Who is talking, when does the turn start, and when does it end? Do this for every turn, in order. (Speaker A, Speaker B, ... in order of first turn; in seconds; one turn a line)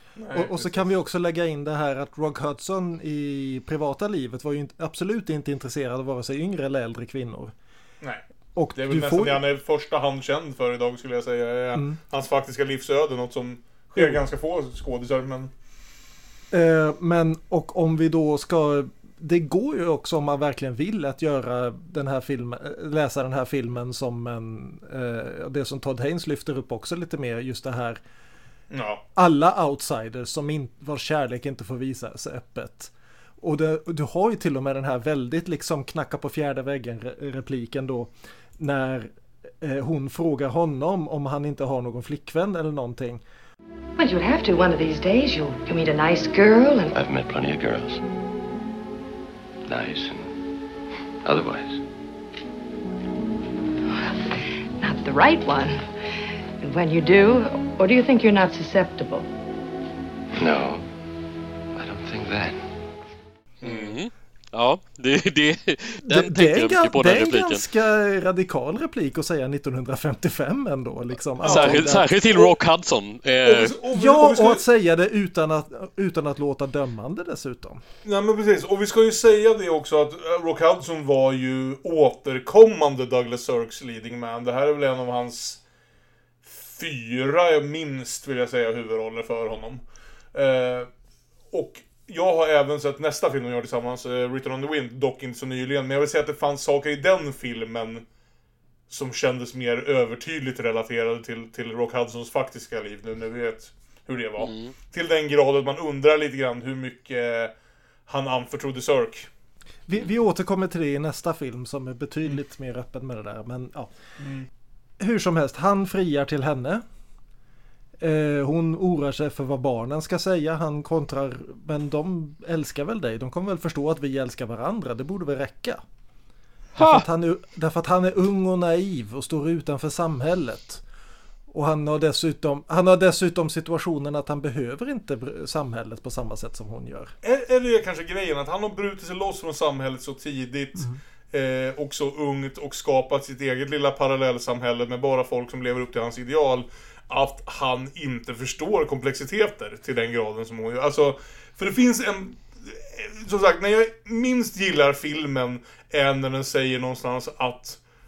Speaker A: 0.2-0.8
Speaker B: 0.3-7.5
Speaker B: 8.5-9.4
Speaker A: 8.8-15.5
Speaker B: 11.7-12.0
Speaker B: 14.0-14.2
Speaker B: 16.5-28.0
Speaker A: 28.7-29.0
Speaker B: 29.1-39.1
Speaker B: 39.6-43.2
Speaker C: 44.0-46.9
Speaker D: 46.9-48.0
Speaker D: 49.7-50.3
Speaker D: 51.2-51.8
Speaker C: 54.8-55.8
Speaker C: 56.6-59.3
Speaker D: 60.4-60.8
Speaker D: 61.7-62.6
Speaker A: 63.6-64.0
Speaker E: 63.6-67.6
Speaker B: 66.0-72.1
Speaker A: 71.4-72.5
Speaker E: 71.4-73.8
Speaker A: 73.4-74.6
Speaker B: 73.9-77.8
Speaker A: 78.0-85.6
Speaker A: 86.4-90.9
Speaker A: 91.5-98.0
Speaker A: 98.9-107.5
Speaker E: 104.4-104.7
Speaker A: 108.1-109.3
Speaker B: 109.9-113.9
Speaker A: 114.2-114.5
Speaker B: 115.0-116.8
Speaker B: 118.0-125.8
Speaker B: 126.8-130.8
Speaker B: 131.5-137.1
Speaker A: 137.2-157.8